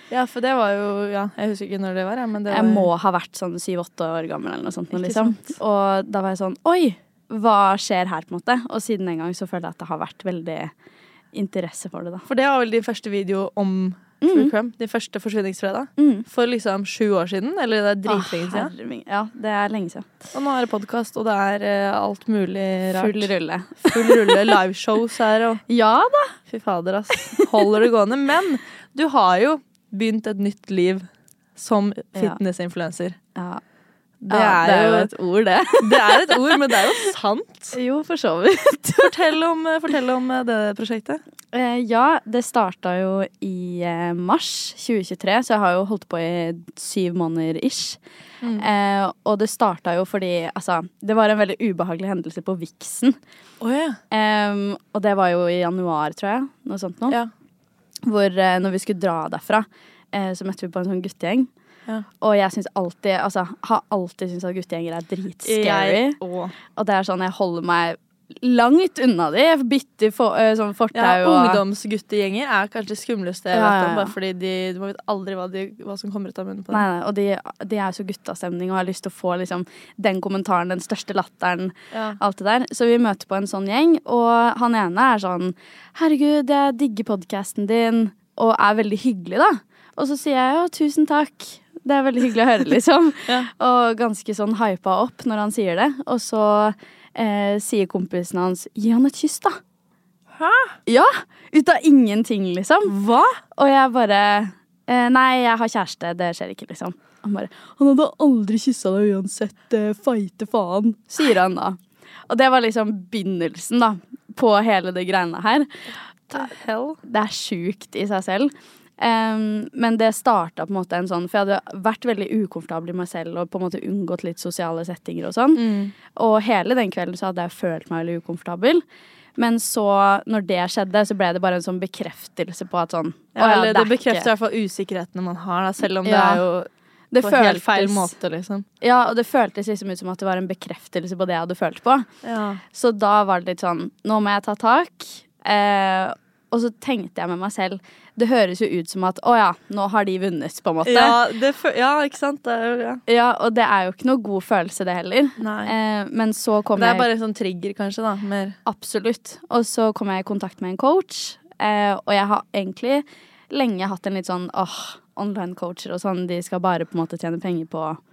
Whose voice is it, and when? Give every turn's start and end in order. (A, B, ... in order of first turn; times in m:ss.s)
0:00.1-0:02.9 A
0:02.5-0:10.7 B
0:05.0-0:05.5 A
0:11.3-0:12.2 B
0:12.3-0:18.7 A
0:14.2-0:14.5 B
0:16.0-0:16.3 B
0:18.1-0:20.1 B
0:20.3-0:25.6 A
0:23.0-0:24.5 B
0:25.7-0:26.4 B
0:26.5-0:33.2 A
0:27.4-0:27.6 B
0:33.4-0:33.6 B
0:34.2-0:35.1 A
0:34.3-0:37.0 B
0:35.8-0:37.8 A
0:37.7-0:39.2 B
0:39.0-0:41.2 A
0:41.5-0:48.0 B
0:48.6-0:53.2 B
0:53.6-0:54.0 A
0:54.1-0:57.2 B
0:58.0-1:01.5 B
1:02.2-1:06.2 B
1:05.4-1:06.5 A
1:06.8-1:11.6 B
1:10.9-1:16.8 A
1:13.5-1:14.1 B
1:16.7-1:39.6 B
1:21.9-1:22.2 A
1:40.4-1:40.8 A
1:40.9-1:42.9 B
1:42.9-1:43.4 A
1:43.6-1:51.8 B
1:52.3-1:55.7 B
1:56.3-1:57.0 A
1:57.0-2:05.6 B
2:05.6-2:05.9 A
2:06.2-2:08.8 B
2:09.4-2:14.3 B
2:13.4-2:16.7 A
2:16.0-2:16.4 B
2:17.1-2:18.1 B
2:17.2-2:18.6 A
2:18.8-2:22.1 B
2:22.2-2:22.6 A
2:22.7-2:31.2 B
2:30.8-2:33.0 A
2:33.1-2:37.1 B
2:35.4-2:35.7 A
2:36.8-2:38.6 A
2:38.7-2:48.0 B